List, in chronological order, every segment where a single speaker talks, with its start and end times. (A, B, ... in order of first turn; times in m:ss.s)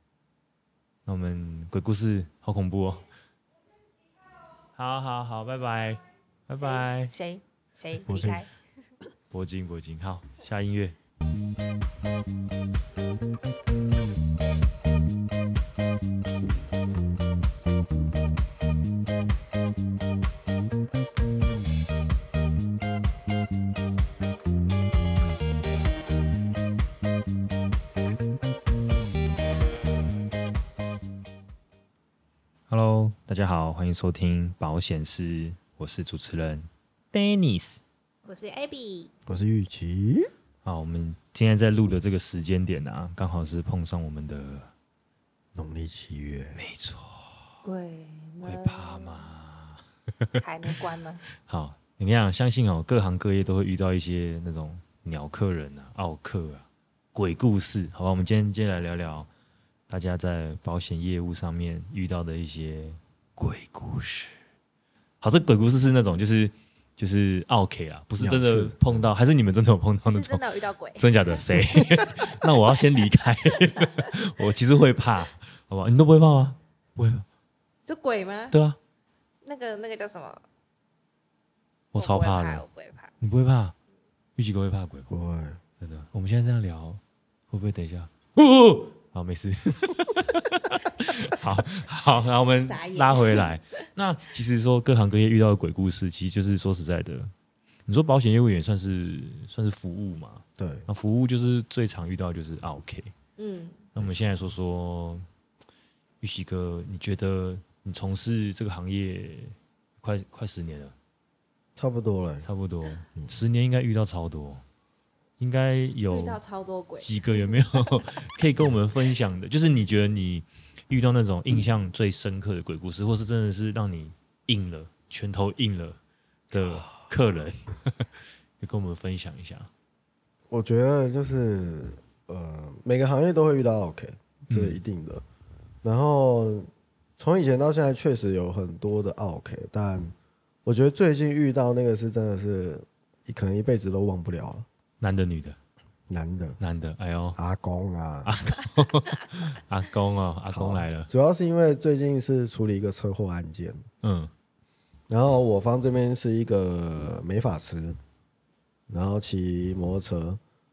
0:01.0-0:03.1 A
0:04.8-0:07.1 A
0:06.6-0:08.5 B
0:08.0-0:08.4 C
0:09.3-0:11.0 A
0:32.7-0:37.8 A
0:38.2-0:39.1 B
0:39.3-0:40.3 C
0:40.6-0:44.7 A
0:45.5-0:46.6 C
0:46.6-0:47.3 A
0:47.6-0:49.3 B
0:48.4-0:50.3 A
0:50.4-0:51.2 B
0:51.4-0:59.3 A
0:59.9-1:04.3 A
1:05.2-1:10.4 A
1:08.2-1:09.0 C
1:10.0-1:11.9 B
1:11.0-1:17.2 A
1:17.9-1:18.5 B
1:18.5-1:18.8 A
1:19.4-1:20.4 B
1:21.9-1:22.6 A
1:22.0-1:23.1 B
1:23.2-1:23.7 A
1:24.4-1:25.2 A
1:25.1-1:25.6 C
1:25.8-1:37.3 A
1:32.6-1:33.5 B
1:37.9-1:43.1 A
1:40.6-1:40.8 C
1:43.4-1:43.8 B
1:43.9-1:45.2 A
1:46.2-1:50.9 A
1:51.8-1:52.4 C
1:52.4-1:54.6 A
1:55.4-1:56.4 A
1:56.1-1:58.2 B
1:57.0-2:06.0 A
2:06.5-2:08.1 A
2:06.5-2:06.9 C
2:08.6-2:09.7 A
2:10.5-2:15.2 C
2:14.5-2:14.8 A
2:15.8-2:20.1 C
2:20.6-2:24.6 C
2:25.0-2:25.6 A
2:26.1-2:26.6 C
2:26.6-2:27.4 A
2:27.4-2:28.3 C
2:28.2-2:31.1 A
2:30.5-2:33.8 C
2:34.0-2:34.3 A
2:35.1-2:38.0 C
2:38.9-2:40.4 C